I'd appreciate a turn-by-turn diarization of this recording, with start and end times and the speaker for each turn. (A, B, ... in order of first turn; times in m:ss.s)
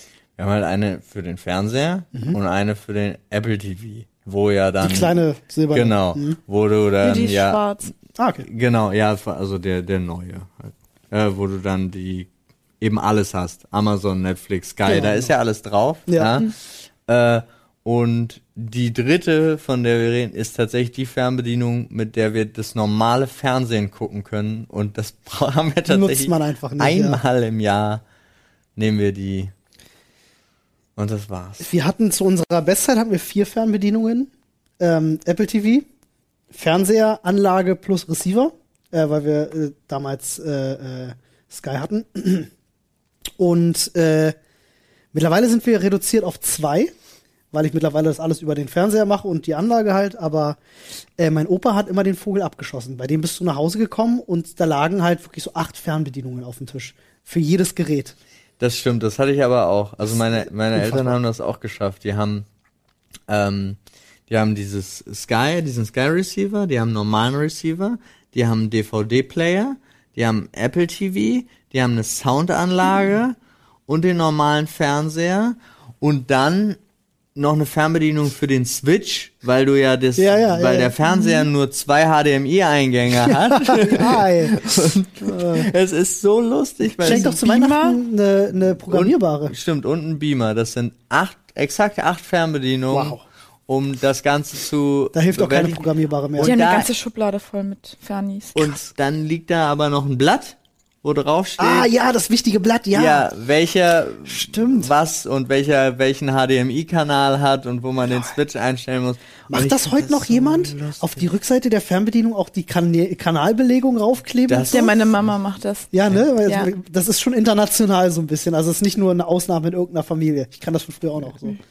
0:00.4-0:05.1 A
0:04.8-0:06.4 B
0:05.7-0:07.6 A
0:07.0-0:07.9 C
0:08.2-0:08.4 B
0:08.4-0:12.3 A
0:12.8-0:16.6 A
0:14.8-0:15.3 B
0:16.1-0:16.4 B
0:17.1-0:28.0 A
0:25.9-0:27.2 B
0:28.8-0:29.5 A
0:31.0-0:31.7 A
0:31.6-0:35.9 B
0:36.5-0:42.5 B
0:43.4-0:44.3 B
0:45.1-0:46.9 B
0:47.5-0:50.6 B
0:51.2-0:58.1 B
0:58.6-1:02.5 A
1:00.7-1:01.1 B
1:03.3-1:16.8 A
1:17.4-1:27.3 A
1:20.2-1:20.9 B
1:21.0-1:21.5 C
1:23.5-1:24.6 B
1:25.2-1:25.7 B
1:27.0-1:28.0 C
1:27.0-1:29.5 B
1:28.9-1:35.8 A
1:32.9-1:33.2 B
1:35.1-1:36.6 B
1:36.4-1:36.9 A
1:36.4-1:38.8 C
1:38.5-1:41.9 A
1:41.6-1:43.3 B
1:42.9-1:51.3 A
1:44.3-1:44.9 B
1:49.5-1:54.9 B
1:54.5-1:55.1 A
1:54.7-1:55.9 C
1:55.9-2:01.6 B
1:56.4-1:56.7 C